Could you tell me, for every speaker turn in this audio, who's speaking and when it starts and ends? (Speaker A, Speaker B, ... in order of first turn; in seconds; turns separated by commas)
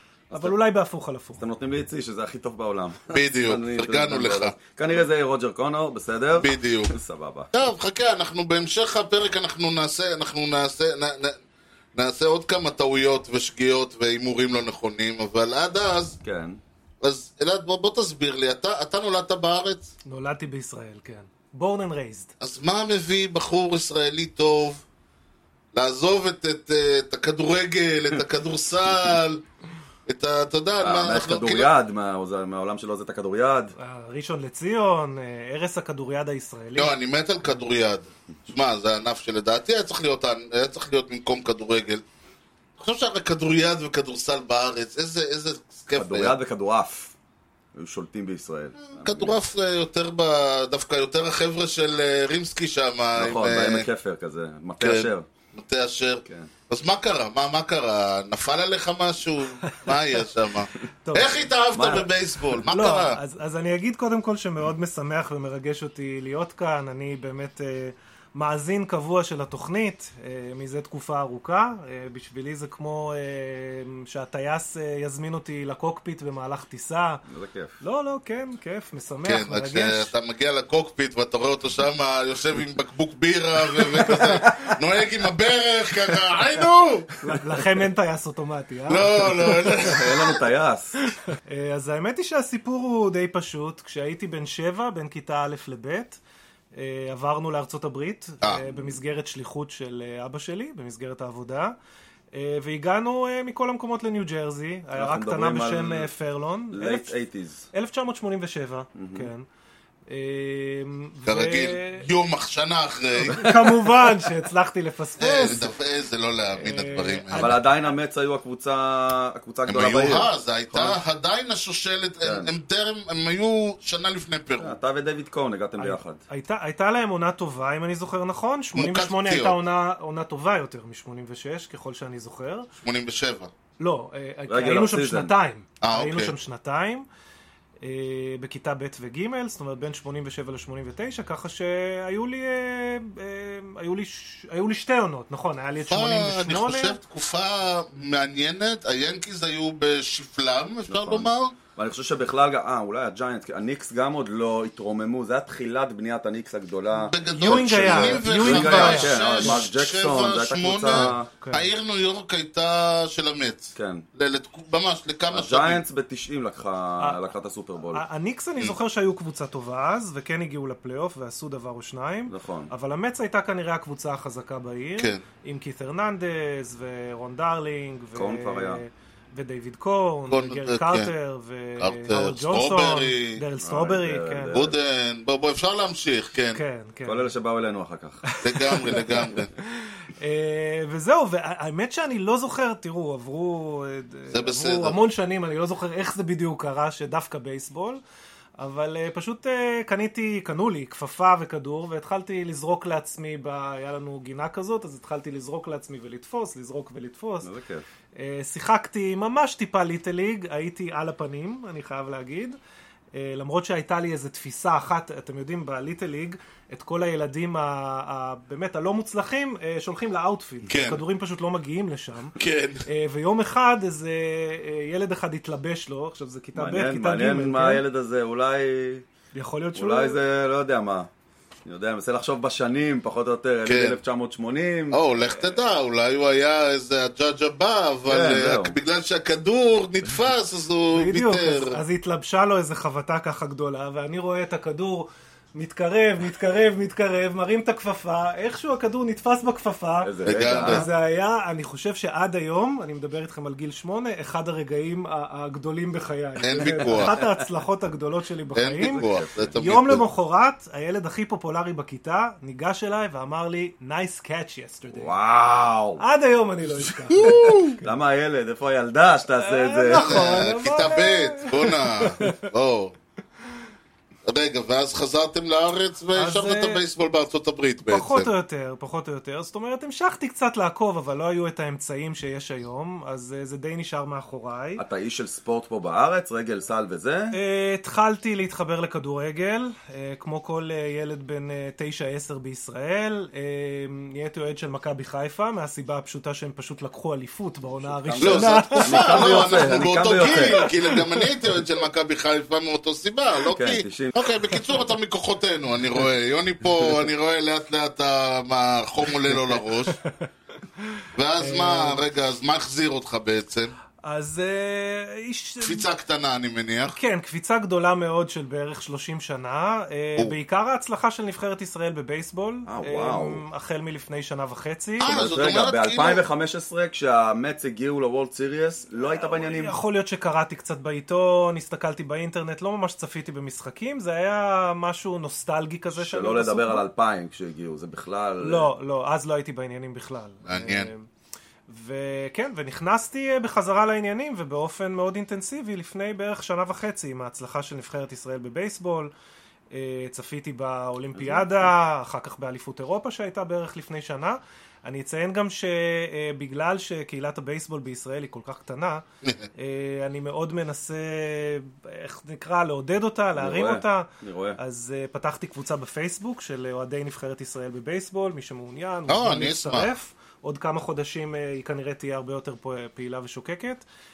Speaker A: 0.3-1.4, Speaker B: 1.4-7.5, Speaker C: 3.1-4.5, Speaker C: 6.4-7.0, Speaker C: 7.5-11.4, Speaker C: 11.9-16.2, Speaker B: 16.2-16.6, Speaker C: 17.0-19.9, Speaker A: 20.1-22.3, Speaker C: 22.4-24.8, Speaker C: 25.7-29.4, Speaker C: 30.1-31.7, Speaker B: 30.8-33.7, Speaker A: 33.8-36.9, Speaker C: 36.8-42.0, Speaker C: 42.8-46.4, Speaker B: 45.9-47.1, Speaker B: 47.7-49.4, Speaker C: 48.9-53.9, Speaker B: 53.1-55.2, Speaker C: 54.8-63.2, Speaker B: 56.2-56.5, Speaker A: 61.0-61.3, Speaker B: 61.7-62.1, Speaker A: 62.6-77.2, Speaker B: 77.3-77.8, Speaker A: 77.8-80.1, Speaker C: 79.2-87.1, Speaker A: 87.2-90.0, Speaker C: 88.9-90.3, Speaker B: 89.8-91.0, Speaker A: 91.1-96.2, Speaker A: 96.7-101.7, Speaker A: 102.3-107.2, Speaker B: 104.9-106.1, Speaker B: 106.7-107.7, Speaker A: 107.7-109.5, Speaker B: 108.9-109.3, Speaker A: 110.1-112.1, Speaker C: 111.2-113.7, Speaker A: 113.2-115.7, Speaker C: 115.2-117.6, Speaker A: 116.5-117.7, Speaker B: 117.3-121.0, Speaker C: 119.7-124.8, Speaker B: 122.2-122.5, Speaker B: 124.6-126.2, Speaker A: 125.8-132.7, Speaker C: 128.7-129.6, Speaker C: 132.8-133.5, Speaker A: 133.8-137.1, Speaker B: 134.5-135.3, Speaker C: 135.8-136.3, Speaker A: 137.8-147.0, Speaker C: 145.9-151.5, Speaker B: 150.9-161.3, Speaker C: 157.0-165.8, Speaker A: 157.3-159.6, Speaker A: 160.9-161.7, Speaker B: 163.7-164.0, Speaker B: 165.3-168.0, Speaker A: 167.9-184.7, Speaker B: 172.3-172.7, Speaker B: 178.1-178.8, Speaker C: 180.3-181.1, Speaker C: 181.8-183.4, Speaker B: 183.6-184.7, Speaker C: 184.5-186.6, Speaker A: 186.5-187.3, Speaker B: 187.0-188.2, Speaker A: 188.3-198.0, Speaker C: 188.4-189.5, Speaker C: 194.3-195.0, Speaker A: 198.6-207.5, Speaker B: 207.4-207.8, Speaker A: 208.1-212.6, Speaker A: 213.1-227.8, Speaker C: 220.7-221.0, Speaker C: 222.4-222.8, Speaker B: 226.5-229.0, Speaker A: 229.3-230.2, Speaker B: 229.8-231.1, Speaker B: 231.6-235.0, Speaker C: 233.7-234.0, Speaker C: 234.9-241.8, Speaker B: 238.1-238.8, Speaker A: 240.9-265.1, Speaker B: 250.0-250.8, Speaker C: 250.2-250.8, Speaker C: 256.4-257.1, Speaker B: 256.7-257.3, Speaker C: 258.5-260.0, Speaker B: 258.8-259.6, Speaker B: 264.9-266.0, Speaker A: 266.0-267.8, Speaker C: 267.1-267.8, Speaker B: 267.8-270.4, Speaker A: 269.3-272.5, Speaker C: 269.9-272.9, Speaker C: 274.2-278.3, Speaker A: 276.1-276.9, Speaker A: 277.9-284.8, Speaker B: 284.8-287.4, Speaker A: 287.3-301.3, Speaker B: 297.7-300.6, Speaker C: 298.2-310.0, Speaker B: 303.5-304.2, Speaker B: 306.7-307.0, Speaker A: 309.3-310.3, Speaker A: 310.9-312.0, Speaker C: 311.1-313.7, Speaker A: 314.0-315.9, Speaker C: 315.6-317.0, Speaker A: 316.9-325.1, Speaker B: 322.7-323.4, Speaker C: 325.0-326.2, Speaker B: 325.0-329.8, Speaker A: 329.1-336.9, Speaker B: 335.9-338.7, Speaker A: 338.4-341.1, Speaker C: 340.4-340.9, Speaker A: 341.7-349.1, Speaker A: 349.7-359.0, Speaker B: 351.1-351.7, Speaker A: 359.6-373.8, Speaker B: 363.4-364.6, Speaker C: 369.1-369.9